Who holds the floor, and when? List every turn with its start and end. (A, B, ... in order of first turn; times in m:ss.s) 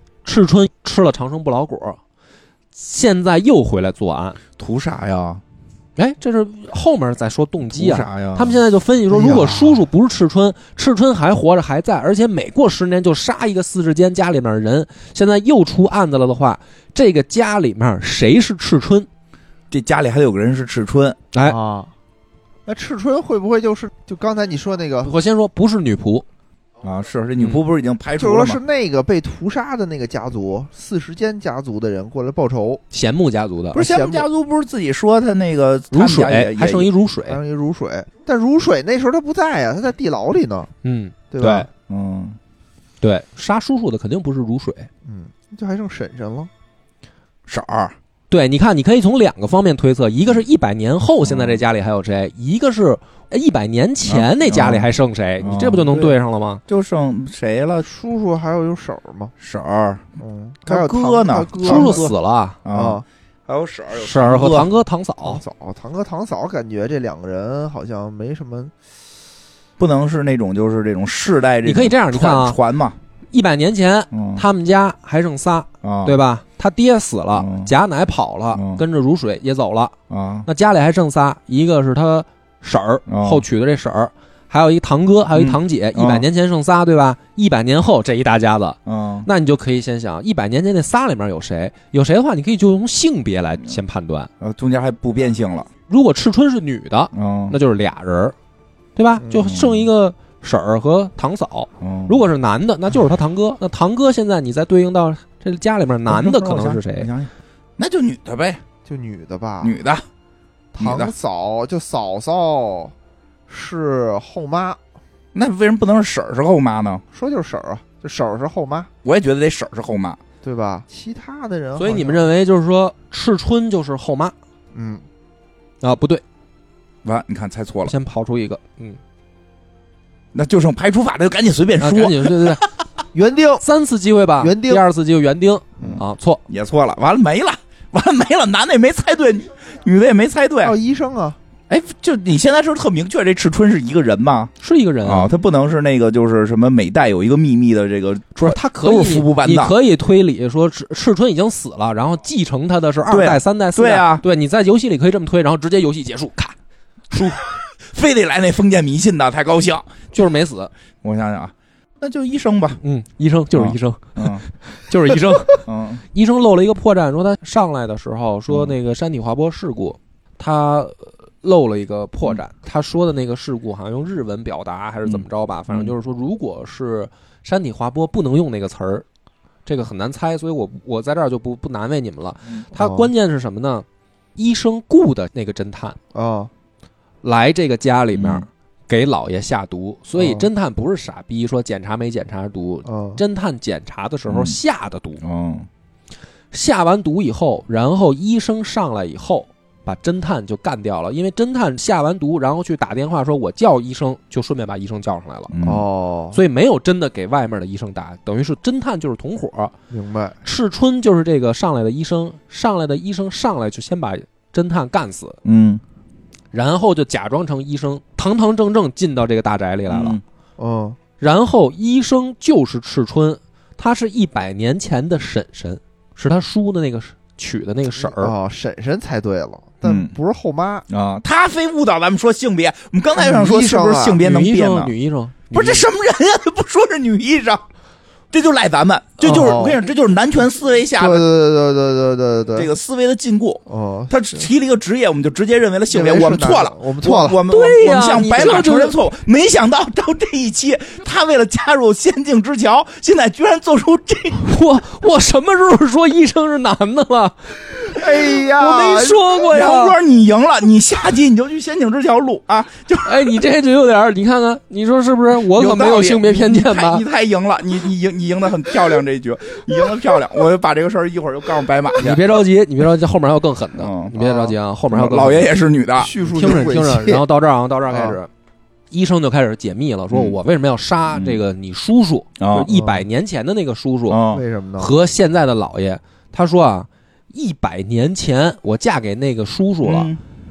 0:00.2-0:02.0 A
0:02.7-0:04.4 A
0:04.6-0:05.4 B
0:06.0-0:19.1 A
0:07.7-0:08.6 B
0:09.1-0:09.8 C
0:19.7-0:21.2 B
0:21.4-0:21.9 C
0:22.6-0:25.1 C
0:25.0-0:26.2 A
0:26.8-0:28.6 B
0:27.4-0:27.6 A
0:28.2-0:32.8 C
0:32.9-0:33.8 A
0:33.7-0:34.3 C
0:33.7-0:36.9 B
0:35.9-0:37.4 A
0:37.3-0:40.7 C
0:40.8-0:41.7 A
0:41.3-0:41.7 C
0:41.9-0:42.4 B
0:43.0-0:44.9 A
0:45.0-0:46.5 C
0:47.5-0:47.9 B
0:48.3-0:56.6 A
0:51.2-0:51.6 B
0:54.0-0:54.9 B
0:55.4-0:56.2 B
0:56.7-0:57.9 B
0:57.8-0:59.3 C
0:59.4-1:00.0 B
1:00.2-1:02.1 C
1:00.6-1:02.1 B
1:01.6-1:02.6 A
1:02.6-1:04.7 B
1:02.7-1:03.0 C
1:03.9-1:05.4 A
1:05.2-1:08.7 C
1:09.8-1:13.0 B
1:11.6-1:12.6 A
1:13.3-1:19.9 A
1:14.1-1:14.4 B
1:15.8-1:16.2 B
1:17.3-1:17.7 B
1:18.5-1:18.8 B
1:20.1-1:20.5 B
1:20.4-1:34.3 A
1:23.1-1:23.4 B
1:25.3-1:26.2 B
1:28.8-1:29.3 B
1:34.4-1:35.7 B
1:35.9-1:38.3 A
1:37.1-1:37.6 B
1:39.0-1:47.1 A
1:39.4-1:39.9 B
1:41.8-1:42.2 B
1:46.1-1:48.6 B
1:48.8-1:49.7 C
1:49.6-1:50.0 B
1:50.7-1:52.9 C
1:50.8-1:51.1 B
1:53.5-1:54.8 C
1:55.3-1:57.0 B
1:57.1-1:58.9 C
1:59.0-2:00.2 B
2:00.4-2:02.2 C
2:01.8-2:04.3 A
2:04.7-2:05.0 C
2:05.8-2:06.2 A
2:07.0-2:07.9 B
2:07.8-2:09.0 A
2:10.3-2:12.7 B
2:11.8-2:12.6 A
2:13.1-2:13.6 C
2:13.6-2:16.4 A
2:14.4-2:14.8 C
2:15.8-2:20.8 B
2:20.6-2:21.4 C
2:21.7-2:29.7 B
2:24.6-2:25.3 A
2:28.4-2:36.5 A
2:33.1-2:34.2 B
2:37.1-2:37.4 A
2:37.8-2:40.1 B
2:40.1-2:40.7 A
2:41.0-2:42.8 B
2:42.8-2:59.0 A
2:43.5-2:44.4 B
2:45.1-2:46.0 B
2:48.5-2:48.7 B
2:55.1-2:55.9 B
2:59.6-3:06.0 A
3:02.7-3:03.1 C
3:06.1-3:06.5 C
3:07.2-3:15.2 A
3:08.1-3:08.4 B
3:10.2-3:10.5 C
3:12.8-3:13.2 C
3:14.3-3:14.6 B
3:15.2-3:15.7 B
3:16.5-3:25.5 A
3:25.5-3:25.8 B
3:25.6-3:26.4 C
3:26.3-3:29.7 A
3:29.9-3:30.4 C
3:30.4-3:35.4 A
3:35.4-3:35.8 B
3:36.5-3:40.2 A
3:39.9-3:40.2 B
3:40.6-3:41.0 C
3:41.2-3:48.3 A
3:48.0-3:50.8 C
3:49.8-3:50.1 B
3:50.9-3:54.9 B
3:53.2-3:54.2 C
3:54.2-3:55.8 A
3:55.5-3:57.6 B
3:58.3-4:01.3 B
3:59.2-3:59.6 A
3:59.2-3:59.8 C
4:01.0-4:02.7 C
4:02.5-4:14.4 B
4:03.7-4:04.5 C
4:05.9-4:07.4 C
4:07.5-4:09.0 A
4:14.3-4:17.6 A
4:17.7-4:19.2 C
4:17.9-4:23.3 B
4:18.5-4:20.0 A
4:23.0-4:27.0 A
4:25.5-4:32.4 B
4:32.0-4:35.5 A
4:33.8-4:34.2 B
4:34.2-4:34.5 C
4:34.9-4:36.2 B
4:36.0-4:37.2 C
4:36.2-4:38.3 A
4:37.9-4:38.2 C
4:38.9-4:44.2 A
4:40.1-4:40.4 B
4:41.1-4:41.4 B
4:42.4-4:42.7 B
4:42.7-4:43.0 C
4:44.1-4:44.4 B
4:44.3-4:44.9 C
4:44.8-4:50.1 A
4:49.8-4:50.2 B